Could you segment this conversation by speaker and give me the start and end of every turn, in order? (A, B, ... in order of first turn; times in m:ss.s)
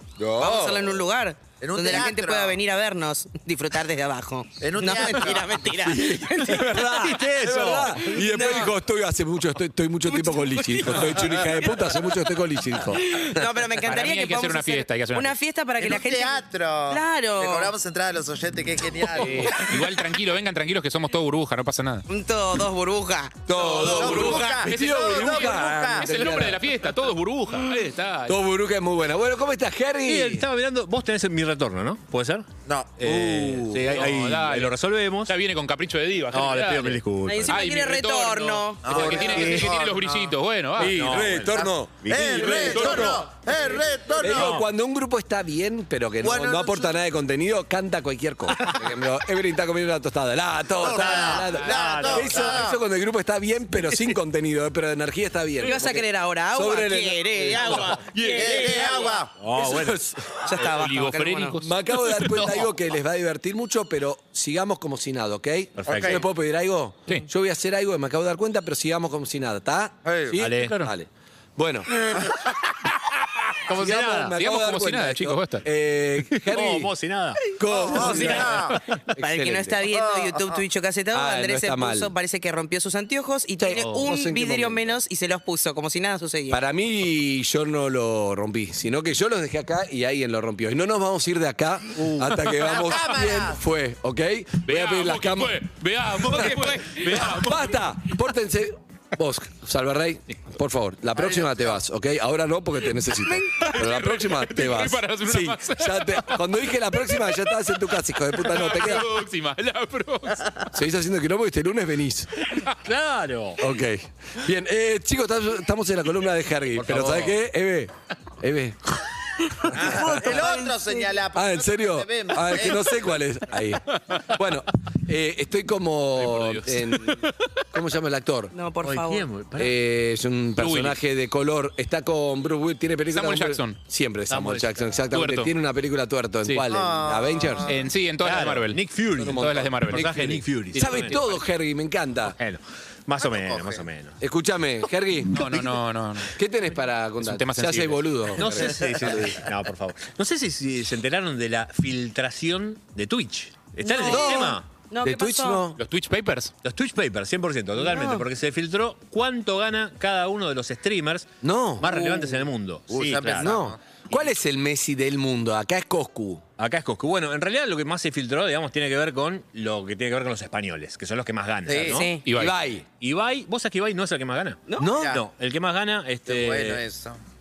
0:00.2-0:01.0 A
0:00.4-0:06.8 B
0:01.6-0:02.6 A
0:04.6-0:05.7 A
0:05.8-0:13.4 C
0:06.6-0:08.2 D
0:08.2-0:08.7 B
0:10.1-0:11.4 B
0:12.8-0:17.7 B
0:13.8-0:15.4 E
0:15.8-0:19.7 A
0:19.1-0:22.1 E
0:19.4-0:19.7 B
0:22.1-0:24.1 B
0:23.5-0:26.6 C
0:23.5-0:26.4 A
0:24.1-0:28.4 E
0:28.3-0:30.5 C
0:30.0-0:32.5 D
0:32.6-0:33.8 A
0:33.0-0:35.3 D
0:33.1-0:33.8 C
0:33.8-0:41.3 E
0:36.3-0:37.6 D
0:37.2-0:39.7 B
0:38.8-0:40.3 A
0:40.8-0:43.2 C
0:40.8-0:43.2 D
0:41.4-0:44.6 A
0:42.7-0:43.2 E
0:44.2-1:00.5 C
0:46.2-0:47.0 A
0:50.8-0:52.8 A
0:51.1-0:52.6 D
0:55.6-0:59.2 B
0:57.6-0:58.0 D
0:58.2-0:59.3 A
0:59.4-1:00.6 D
1:00.5-1:01.6 B
1:00.6-1:02.7 E
1:01.6-1:11.9 C
1:05.8-1:06.2 D
1:05.9-1:06.2 A
1:10.0-1:10.4 A
1:10.4-1:10.9 D
1:13.1-1:15.6 E
1:13.7-1:14.3 D
1:13.7-1:16.9 C
1:16.5-1:17.4 D
1:17.5-1:19.9 C
1:17.7-1:18.8 A
1:18.0-1:19.0 D
1:19.2-1:26.6 B
1:19.9-1:20.6 A
1:21.1-1:22.1 C
1:23.6-1:25.0 C
1:23.8-1:24.1 D
1:26.5-1:35.6 C
1:32.6-1:33.6 A
1:34.7-1:37.9 E
1:36.1-1:49.1 C
1:41.2-1:41.8 A
1:43.2-1:43.8 B
1:43.6-1:47.6 E
1:48.4-1:50.6 E
1:50.7-1:52.3 C
1:52.9-1:53.6 D
1:53.6-1:59.0 C
1:56.8-1:57.4 D
1:59.7-2:00.1 C
1:59.7-2:03.0 A
1:59.9-2:01.1 B
2:01.3-2:07.2 C
2:06.2-2:07.3 E
2:07.7-2:08.5 C
2:08.5-2:09.3 B
2:08.8-2:09.8 D
2:09.6-2:17.7 C
2:10.6-2:11.0 E
2:13.1-2:13.8 E
2:14.3-2:15.0 D
2:15.1-2:15.5 E
2:16.7-2:17.9 A
2:17.6-2:18.8 E
2:18.2-2:21.2 D
2:19.2-2:22.4 C
2:19.3-2:21.2 E
2:22.3-2:24.2 D
2:23.2-2:23.8 A
2:24.2-2:25.4 C
2:25.3-2:26.4 E
2:26.4-2:29.4 C
2:27.2-2:28.0 E
2:28.4-2:34.7 D
2:28.9-2:29.2 A
2:33.8-2:35.7 B
2:34.0-2:35.8 C
2:35.8-2:36.5 E
2:36.6-2:43.6 D
2:37.8-2:38.3 B
2:41.4-2:41.9 C
2:42.9-2:43.8 A
2:43.4-2:46.4 C
2:46.6-2:52.1 D
2:51.6-2:52.2 A
2:51.9-2:52.3 B
2:52.2-2:52.6 E
2:52.3-2:52.8 C
2:53.0-2:56.8 D
2:54.7-2:55.0 B
2:54.8-2:55.1 C
2:55.0-2:55.2 A
2:56.3-2:57.2 A